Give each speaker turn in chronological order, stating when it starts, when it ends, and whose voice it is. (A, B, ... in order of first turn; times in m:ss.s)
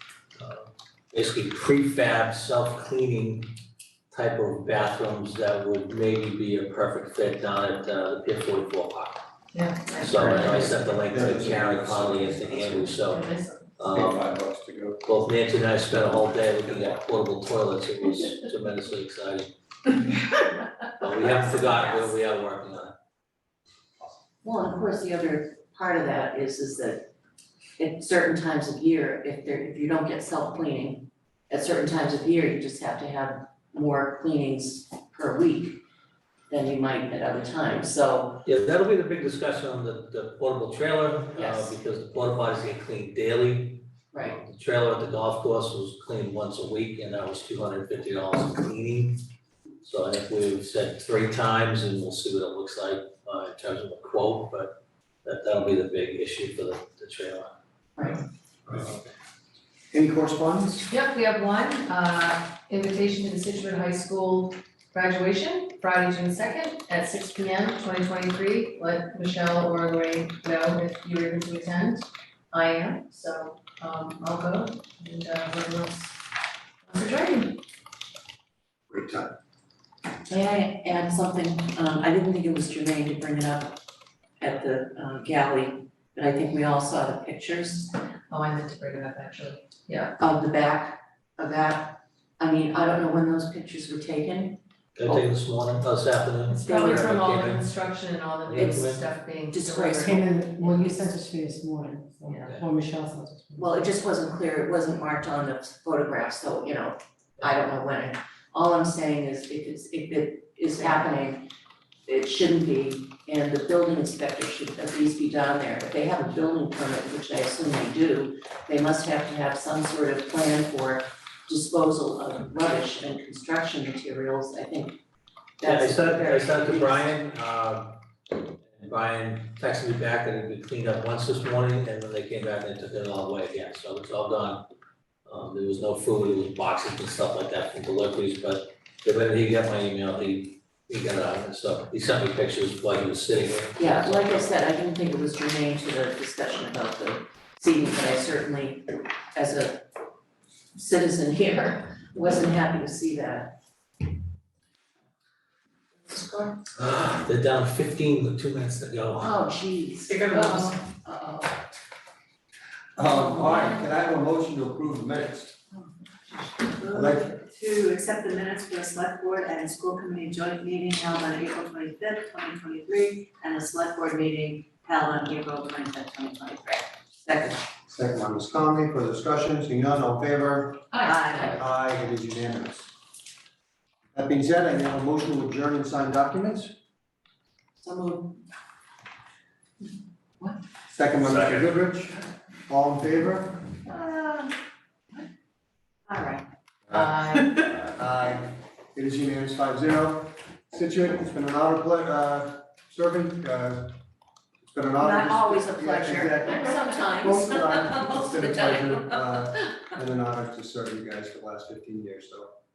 0:00.4-0:03.5 A
0:04.1-0:09.2 A
0:09.5-0:10.7 B
0:10.0-0:13.2 A
0:11.1-0:13.0 C
0:13.0-0:13.5 B
0:13.8-0:14.3 A
0:13.9-0:15.0 C
0:15.0-0:19.5 A
0:20.9-0:22.9 A
0:21.3-0:22.0 D
0:24.4-0:27.1 D
0:27.8-0:35.8 D
0:36.5-0:38.4 D
0:38.4-0:49.2 A
0:41.3-0:41.7 D
0:44.1-0:44.4 D
0:49.8-0:57.5 A
0:58.0-0:58.2 D
0:58.8-0:59.0 A
0:59.9-1:00.9 C
1:00.9-1:16.2 B
1:16.9-1:17.6 B
1:18.9-1:19.3 C
1:20.3-1:23.8 D
1:24.4-1:27.9 D
1:28.3-1:30.2 B
1:30.2-1:35.2 D
1:35.0-1:37.7 A
1:36.5-1:40.1 B
1:36.6-1:37.1 D
1:38.4-1:39.1 A
1:39.5-1:41.1 D
1:40.0-1:43.7 E
1:43.6-1:51.5 D
1:52.1-2:05.0 D
2:05.6-2:07.1 D
2:05.6-2:08.0 A
2:08.7-2:14.6 A
2:15.2-2:24.5 A
2:23.8-2:29.8 D
2:30.7-2:33.5 D
2:36.0-2:36.6 D
2:36.8-2:39.3 A
2:39.2-2:41.6 D
2:43.0-2:45.5 C
2:43.0-2:43.9 D
2:46.7-2:56.8 F
2:46.9-2:47.4 C
2:57.2-2:57.6 D
2:57.9-3:00.8 C
3:00.9-3:01.5 B
3:01.1-3:01.6 D
3:01.1-3:01.4 F
3:01.4-3:02.9 C
3:04.1-3:06.7 C
3:07.8-3:08.4 D
3:10.9-3:13.6 C
3:11.2-3:11.7 A
3:13.8-3:14.5 D
3:16.1-3:16.4 D
3:16.9-3:17.1 C
3:16.9-3:17.5 B
3:17.8-3:24.0 C
3:24.6-3:32.5 C
3:25.0-3:29.5 D